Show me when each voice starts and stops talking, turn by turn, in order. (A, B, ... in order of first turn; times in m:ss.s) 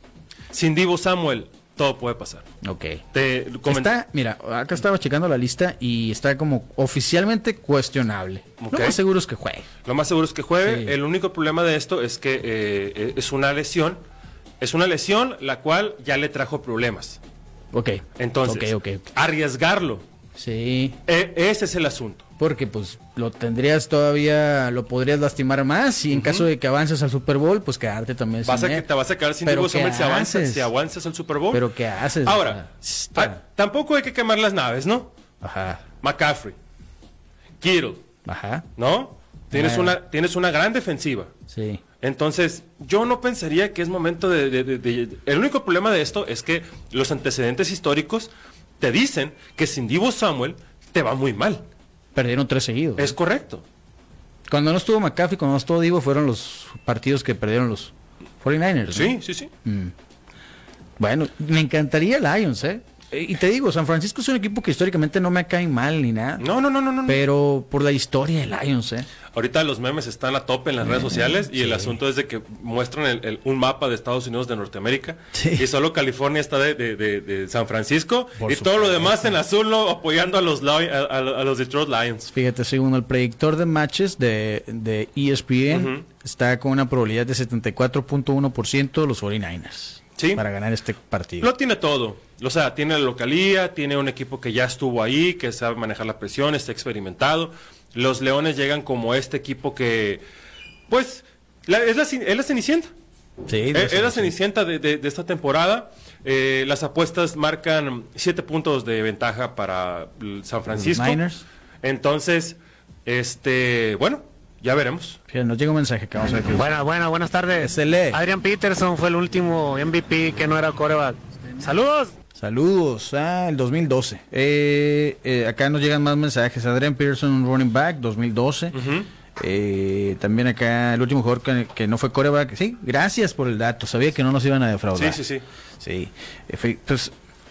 0:00.5-0:02.4 A
0:02.6-0:03.0 B
0:03.1-0:04.0 A
0:03.6-0:09.6 B
0:08.6-0:09.0 A
0:09.8-0:14.0 A
0:10.6-0:10.9 B
0:14.6-0:17.2 A
0:17.7-0:19.1 B
0:18.2-0:20.0 A
0:20.4-0:21.0 B
0:21.1-0:22.2 A
0:22.4-0:28.8 B
0:26.1-0:26.5 A
0:28.4-0:31.6 A
0:29.4-0:30.7 B
0:31.5-0:33.4 B
0:32.2-0:35.1 A
0:35.4-0:35.8 B
0:36.0-0:36.5 A
0:37.6-0:38.0 A
0:38.2-0:38.6 B
0:38.8-0:41.3 A
0:39.5-0:40.0 B
0:41.5-0:41.8 B
0:42.0-0:51.6 A
0:52.1-0:53.2 B
0:53.0-0:53.6 A
0:54.5-0:59.9 B
0:58.9-0:59.5 A
1:01.0-1:06.4 B
1:06.4-1:07.2 A
1:07.0-1:09.1 B
1:09.3-1:22.3 A
1:10.8-1:12.0 B
1:15.3-1:15.6 B
1:18.4-1:19.4 B
1:22.3-1:31.5 B
1:25.7-1:26.0 A
1:30.2-1:30.4 A
1:31.4-1:40.2 A
1:40.9-1:42.9 A
1:43.5-1:44.3 B
1:43.7-1:51.2 A
1:50.7-1:51.4 B
1:51.8-1:55.2 A
1:55.3-1:56.8 B
1:56.6-2:02.1 C
1:57.5-1:58.2 B
2:02.4-2:08.8 B
2:08.7-2:09.1 A
2:09.4-2:15.2 B
2:14.9-2:15.4 A
2:15.8-2:17.1 B